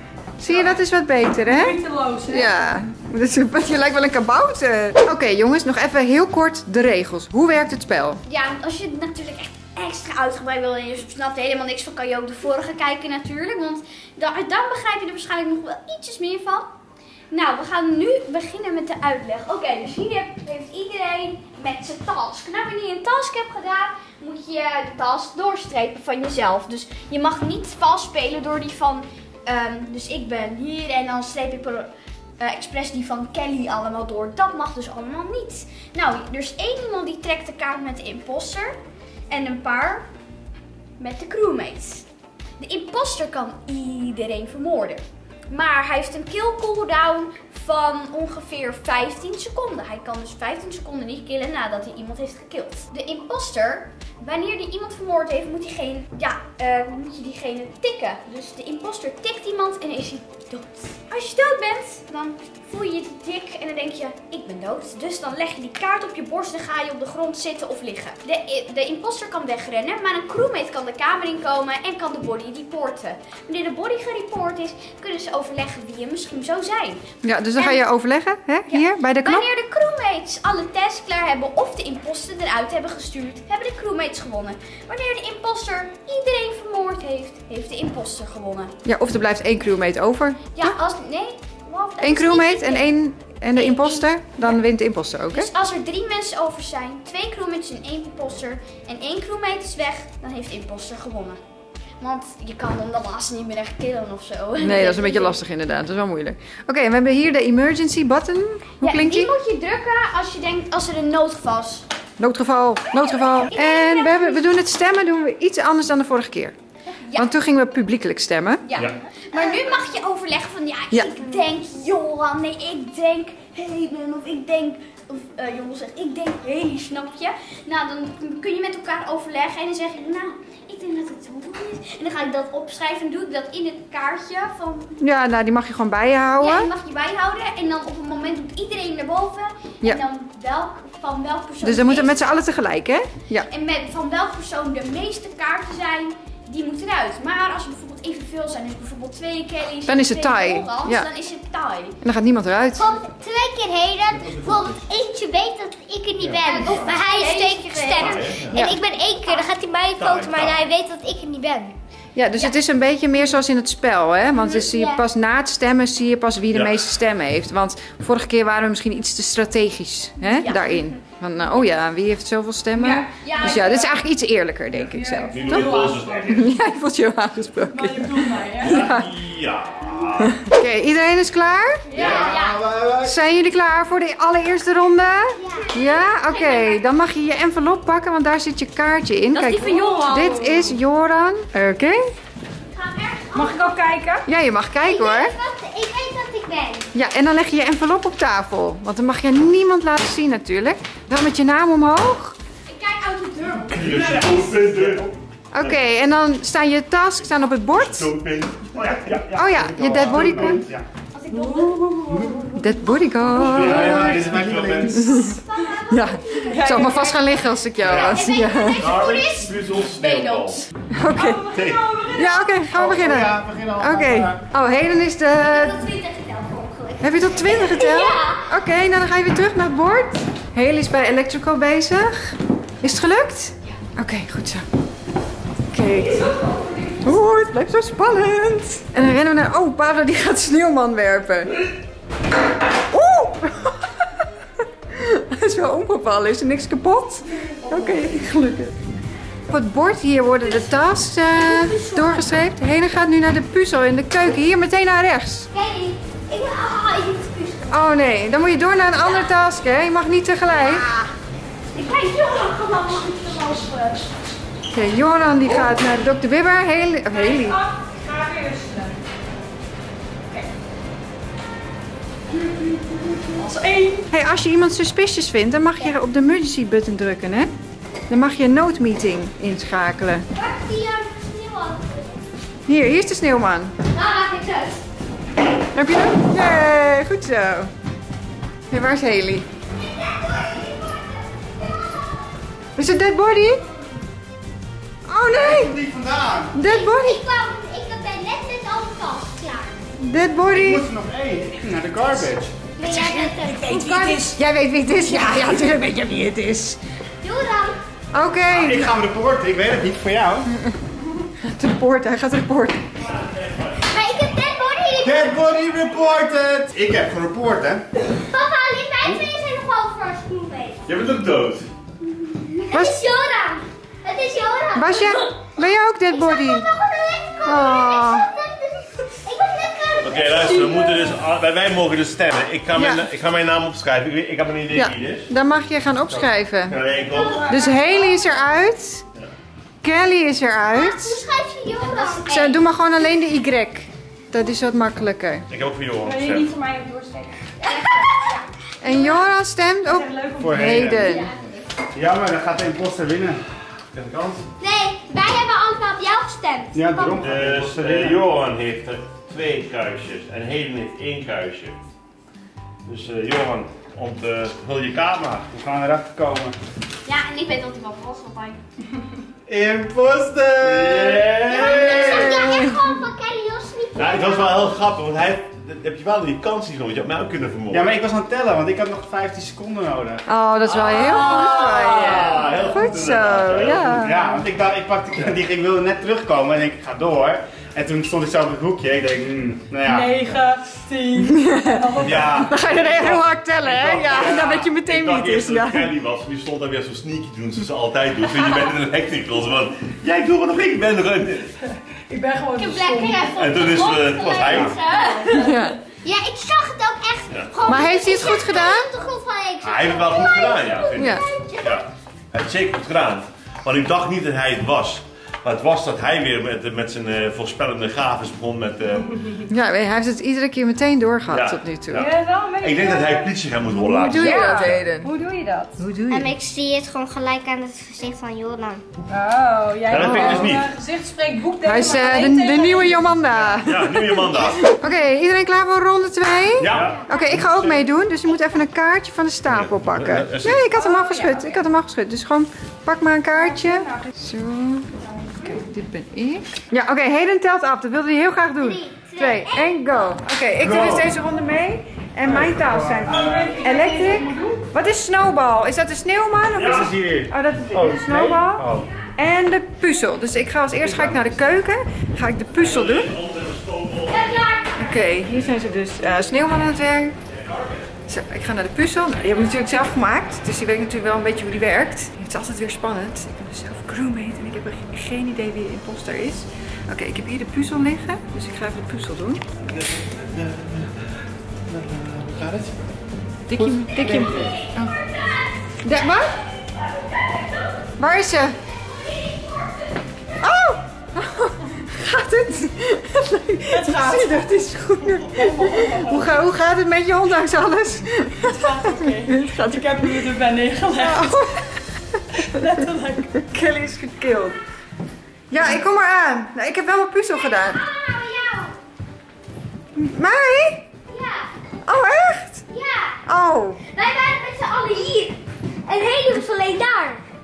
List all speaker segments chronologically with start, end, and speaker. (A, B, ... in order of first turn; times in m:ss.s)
0:00.4-0:08.2 A
0:01.4-0:02.5 B
0:08.2-0:16.7 C
0:17.3-0:38.8 C
0:39.3-0:40.1 C
0:41.0-0:42.1 C
0:42.6-1:17.0 C
1:17.2-1:19.5 A
1:18.7-1:28.7 C
1:28.8-1:30.7 A
1:30.5-1:32.9 C
1:32.0-1:35.5 A
1:33.5-1:34.6 C
1:35.3-1:41.4 C
1:42.0-1:45.4 C
1:44.6-1:49.3 A
1:48.8-1:51.8 C
1:52.2-1:56.5 A
1:53.4-1:54.5 C
1:57.0-1:57.3 C
1:57.1-1:58.6 A
1:58.6-2:15.0 C
2:00.9-2:01.2 A
2:15.0-2:16.7 A
2:16.4-2:22.3 C
2:21.6-2:23.5 A
2:23.4-2:32.0 C
2:29.9-2:31.1 A
2:32.0-2:33.0 A
2:32.8-2:41.7 D
2:34.4-2:34.7 E
2:36.4-2:38.3 C
2:38.0-2:38.6 E
2:38.5-2:38.8 A
2:40.0-2:40.6 E
2:42.1-2:59.2 A
2:44.4-2:45.0 D
2:46.5-2:46.8 E
2:50.2-2:50.9 C
2:52.8-2:53.8 B
2:53.2-2:54.0 C
2:54.8-2:56.4 B
2:55.3-2:56.5 E
2:57.7-2:58.9 B
2:58.6-3:00.3 E
3:00.2-3:02.3 A
3:01.9-3:02.6 C
3:01.9-3:03.2 F
3:03.0-3:12.0 A
3:05.3-3:05.8 D
3:05.6-3:06.8 C
3:09.3-3:10.4 C
3:09.6-3:10.8 B
3:12.7-3:13.8 C
3:13.3-3:14.2 B
3:14.2-3:15.3 A
3:14.8-3:16.9 D
3:16.9-3:22.4 A
3:22.7-3:23.8 C
3:23.4-3:25.1 F
3:23.7-3:25.1 E
3:25.5-3:28.1 A
3:27.7-3:29.2 E
3:28.7-3:30.8 F
3:29.3-3:30.6 A
3:30.0-3:30.4 E
3:31.1-3:32.2 C
3:31.3-3:32.6 B
3:32.1-3:32.4 F
3:32.5-3:39.0 A
3:33.2-3:35.1 E
3:33.3-3:35.2 F
3:35.1-3:40.7 C
3:36.5-3:37.3 B
3:37.8-3:38.1 E
3:37.8-3:38.2 F
3:38.8-3:40.6 E
3:40.9-3:45.8 A
3:41.1-3:42.7 B
3:41.5-3:41.8 E
3:42.7-3:44.4 F
3:45.4-3:48.4 D
3:47.0-3:54.6 A
3:47.8-3:48.2 C
3:55.7-3:56.3 A
3:56.0-3:56.6 B
3:57.0-4:01.5 A
4:02.9-4:04.2 A
4:04.9-4:08.7 A
4:07.6-4:08.2 B
4:09.5-4:15.5 A
4:11.5-4:12.1 D
4:15.5-4:17.8 D
4:17.7-4:20.8 A
4:20.5-4:21.1 C
4:21.7-4:24.0 C
4:22.7-4:23.2 D
4:24.7-4:27.6 A
4:27.1-4:29.0 B
4:33.4-4:34.1 B
4:34.1-4:37.5 A
4:38.1-4:40.3 A
4:40.3-4:42.2 D
4:42.7-4:43.7 A
4:43.9-4:44.8 D
4:45.7-4:47.7 A
4:48.7-4:49.4 A
4:49.8-4:52.3 D
4:52.8-4:53.6 A
4:55.1-4:55.8 A
4:55.3-4:56.6 F
4:56.5-4:57.2 A
4:56.6-4:59.8 D
5:00.0-5:00.9 A
5:00.5-5:02.5 F
5:02.8-5:04.3 D
5:02.8-5:03.4 A
5:03.4-5:04.4 B
5:04.3-5:06.8 A
5:07.2-5:07.8 D
5:08.1-5:08.9 A
5:08.5-5:10.5 F
5:10.4-5:10.8 A
5:11.4-5:12.9 A
5:13.0-5:13.9 E
5:13.8-5:15.6 D
5:15.0-5:17.9 F
5:18.3-5:20.9 D
5:20.8-5:21.7 E
5:22.0-5:30.9 D
5:22.7-5:23.0 A
5:24.7-5:26.7 A
5:27.4-5:28.3 A
5:30.0-5:35.3 E
5:30.6-5:31.2 B
5:32.7-5:33.1 A
5:34.7-5:36.8 A
5:36.1-5:37.6 E
5:37.0-5:38.3 B
5:37.5-5:39.0 A
5:39.8-5:41.2 A
5:40.7-5:42.6 D
5:41.8-5:42.2 C
5:42.3-5:45.4 A
5:45.5-5:46.5 E
5:46.0-5:47.5 B
5:47.6-5:48.4 D
5:48.8-5:51.3 A
5:49.0-5:49.2 B
5:49.8-5:51.0 B
5:50.4-5:51.2 F
5:51.0-5:51.4 D
5:51.0-5:51.4 C
5:51.9-5:53.4 F
5:53.9-5:54.4 E
5:54.6-5:57.2 D
5:56.7-5:58.2 F
5:57.2-6:01.8 E
6:02.8-6:05.5 E
6:05.5-6:06.6 F
6:07.0-6:08.6 C
6:09.5-6:12.6 F
6:10.6-6:12.2 E
6:11.4-6:14.7 D
6:11.9-6:13.0 A
6:13.9-6:18.0 E
6:17.7-6:20.2 F
6:20.3-6:24.2 A
6:20.6-6:24.1 E
6:23.8-6:30.2 F
6:29.8-6:32.7 B
6:31.2-6:31.9 A
6:32.0-6:32.6 F
6:32.0-6:32.5 E
6:32.4-6:35.9 A
6:33.6-6:41.5 E
6:34.0-6:34.4 F
6:42.1-6:43.5 B
6:42.6-6:45.2 C
6:43.3-6:44.7 E
6:44.6-6:45.8 B
6:45.3-6:45.8 A
6:46.0-6:51.8 D
6:47.6-6:48.9 A
6:49.6-6:59.2 E
6:51.0-6:51.2 A
6:59.5-7:02.1 A
7:01.3-7:04.8 E
7:01.9-7:03.3 B
7:03.7-7:05.1 A
7:04.1-7:05.8 B
7:05.8-7:06.3 A
7:06.1-7:08.8 D
7:09.1-7:13.1 B
7:09.8-7:10.7 E
7:10.0-7:10.5 A
7:11.6-7:43.1 A
7:13.3-7:14.7 E
7:16.6-7:17.0 E
7:16.6-7:17.7 F
7:19.5-7:20.6 E
7:20.6-7:21.6 B
7:23.3-7:24.1 B
7:25.0-7:25.6 B
7:28.6-7:30.0 D
7:30.6-7:31.0 F
7:32.2-7:33.8 F
7:33.0-7:34.7 B
7:36.6-7:36.9 E
7:36.6-7:38.9 F
7:40.8-7:41.2 F
7:42.5-7:44.4 E
7:44.1-7:44.9 D
7:44.8-7:47.2 A
7:45.3-7:45.6 E
7:47.3-7:47.9 E
7:48.1-7:59.4 A
7:59.7-8:00.9 E
8:01.7-8:02.7 E
8:03.5-8:05.0 A
8:04.0-8:04.5 F
8:05.0-8:05.4 D
8:05.8-8:06.4 A
8:07.2-8:07.5 D
8:08.0-8:08.6 A
8:08.9-8:09.8 D
8:10.4-8:20.3 A
8:13.7-8:16.4 B
8:18.4-8:21.5 B
8:20.9-8:22.8 A
8:22.4-8:23.4 B
8:23.4-8:24.6 A
8:25.5-8:27.8 A
8:27.4-8:28.7 D
8:29.9-8:30.9 A
8:31.1-8:31.4 D
8:31.8-8:32.6 A
8:32.7-8:33.2 D
8:33.2-8:33.8 A
8:33.9-8:37.2 D